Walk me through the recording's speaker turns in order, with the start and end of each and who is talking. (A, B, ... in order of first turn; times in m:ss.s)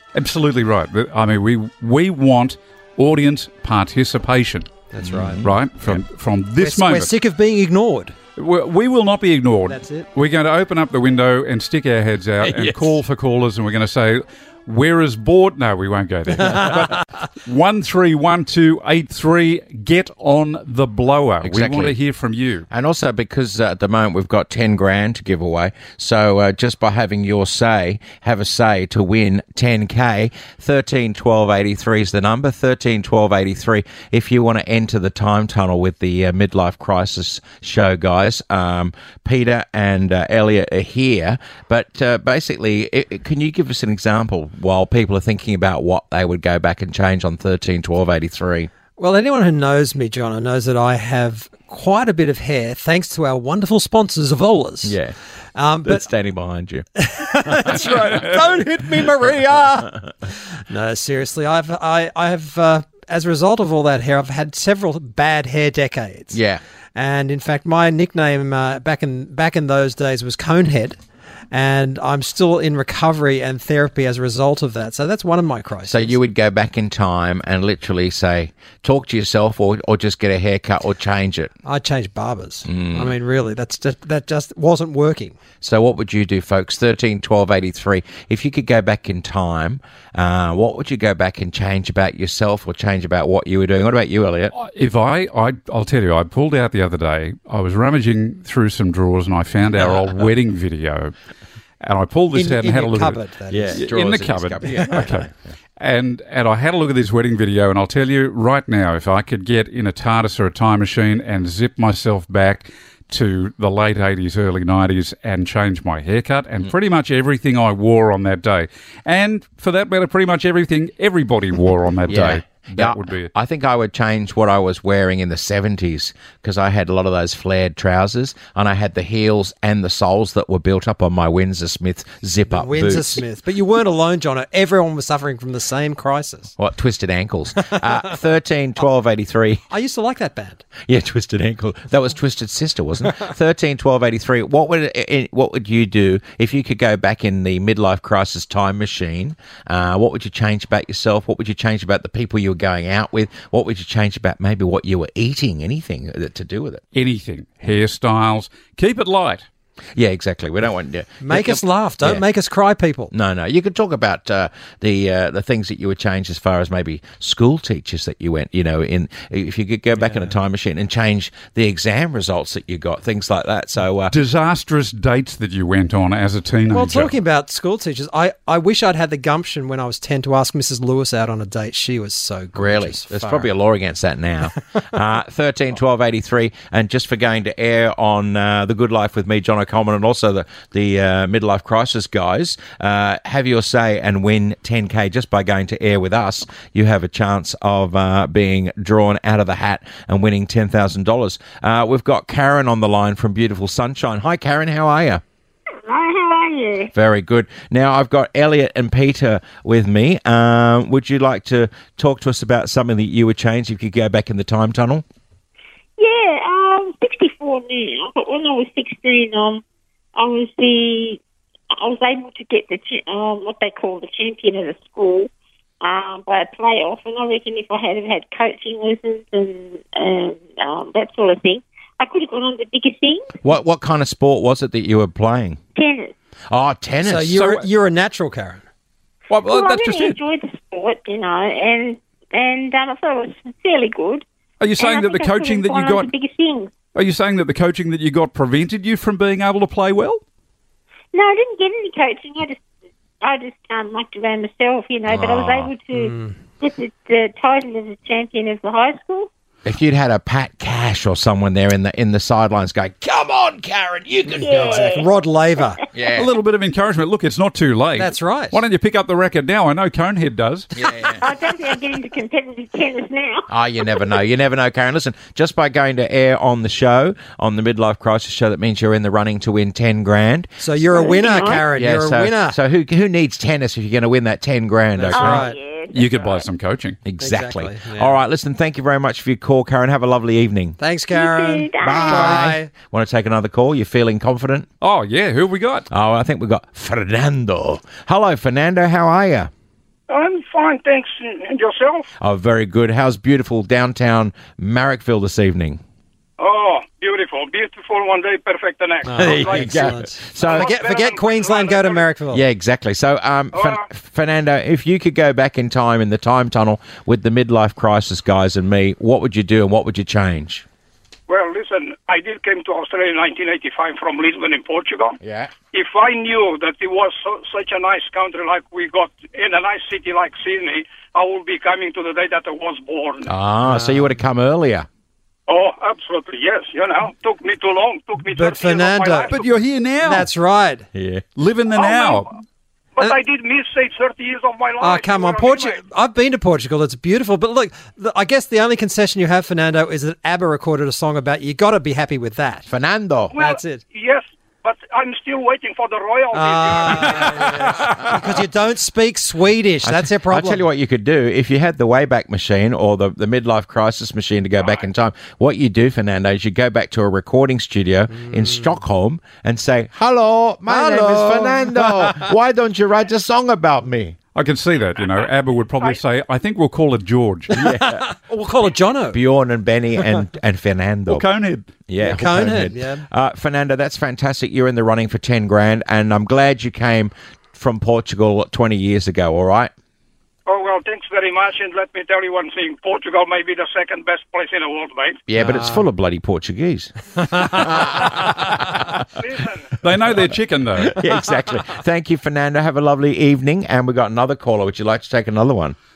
0:00.1-0:04.8 A
0:04.9-0:05.5 B
0:05.0-0:06.0 C
0:05.4-0:07.1 A
0:06.6-0:08.1 B
0:08.4-0:22.7 A
0:09.7-0:10.1 B
0:12.4-0:12.9 C
0:16.4-0:16.7 B
0:21.4-0:22.0 C
0:22.7-0:48.7 C
0:49.0-0:55.0 B
0:54.8-0:55.1 C
0:55.5-0:56.1 B
0:55.8-0:56.8 C
0:57.0-1:00.0 B
0:57.4-0:57.9 C
0:59.2-1:00.0 C
1:00.7-1:06.4 B
1:06.3-1:06.6 C
1:06.9-1:11.0 B
1:11.5-1:16.2 B
1:15.8-1:21.5 C
1:21.6-1:25.4 B
1:22.6-1:23.1 C
1:25.6-1:34.5 C
1:34.5-1:41.1 A
1:41.8-1:43.2 A
1:42.3-1:43.8 B
1:43.5-1:45.3 C
1:43.8-1:45.3 A
1:45.8-2:03.3 A
2:02.1-2:13.2 C
2:12.5-2:16.5 B
2:16.6-2:19.6 C
2:19.7-2:20.6 B
2:20.8-2:36.8 C
2:36.9-2:39.4 A
2:40.0-2:42.2 C
2:41.2-2:43.1 B
2:43.1-2:54.1 C
2:50.0-2:50.3 B
2:54.1-2:57.1 A
2:56.7-3:03.5 B
3:02.5-3:25.2 C
3:25.8-3:26.9 D
3:26.9-3:35.0 C
3:36.0-3:39.6 D
3:40.2-3:41.2 D
3:41.7-3:45.3 D
3:45.8-3:53.3 D
3:53.4-3:55.6 C
3:55.8-3:56.1 D
3:56.5-3:57.4 C
3:57.0-3:58.6 B
3:57.4-3:57.6 A
3:59.3-4:00.2 A
3:59.4-4:04.2 D
4:04.6-4:06.1 A
4:04.8-4:06.8 D
4:06.9-4:10.2 A
4:11.1-4:12.6 D
4:13.2-4:19.3 D
4:15.1-4:15.7 C
4:15.9-4:16.3 B
4:19.6-4:24.9 C
4:24.3-4:25.8 B
4:24.4-4:25.1 D
4:25.9-4:26.3 C
4:26.1-4:30.7 A
4:28.0-4:28.6 B
4:30.8-4:31.3 C
4:31.2-4:33.5 D
4:33.5-4:40.5 C
4:40.6-4:42.6 B
4:40.9-4:41.7 D
4:41.6-4:45.5 C
4:44.9-4:45.6 B
4:45.1-4:46.5 D
4:45.9-4:47.0 A
4:47.0-4:50.8 C
4:47.2-4:48.2 B
4:50.8-4:52.7 B
4:51.1-4:52.4 D
4:51.8-4:54.7 C
4:54.8-4:55.9 A
4:55.9-4:59.5 C
5:00.1-5:02.1 E
5:02.2-5:05.8 C
5:06.4-5:12.0 E
5:09.0-5:12.4 B
5:09.2-5:10.7 C
5:12.3-5:20.6 C
5:13.5-5:13.8 E
5:21.3-5:25.2 E
5:25.2-5:25.5 C
5:25.7-5:33.3 E
5:33.2-5:34.9 C
5:33.6-5:34.2 B
5:35.5-5:39.5 E
5:38.2-5:39.4 B
5:39.3-5:40.3 A
5:40.0-5:40.9 B
5:40.9-5:41.2 C
5:41.4-5:42.3 A
5:41.7-5:42.3 E
5:43.0-5:45.8 E
5:44.8-5:52.7 B
5:52.7-5:53.3 C
5:53.3-5:58.0 E
5:53.4-5:53.8 B
5:56.3-6:00.7 B
5:59.8-6:14.2 C
6:04.6-6:04.8 E
6:08.1-6:08.8 B
6:10.7-6:12.3 B
6:14.3-6:17.6 A
6:17.5-6:19.2 B
6:17.5-6:18.1 C
6:19.1-6:21.2 C
6:21.1-6:21.7 A
6:21.9-6:29.7 C
6:22.0-6:23.0 B
6:30.5-6:35.2 E
6:35.3-6:39.0 C
6:35.4-6:35.8 B
6:39.2-6:39.8 E
6:39.8-6:41.0 A
6:40.8-6:45.8 C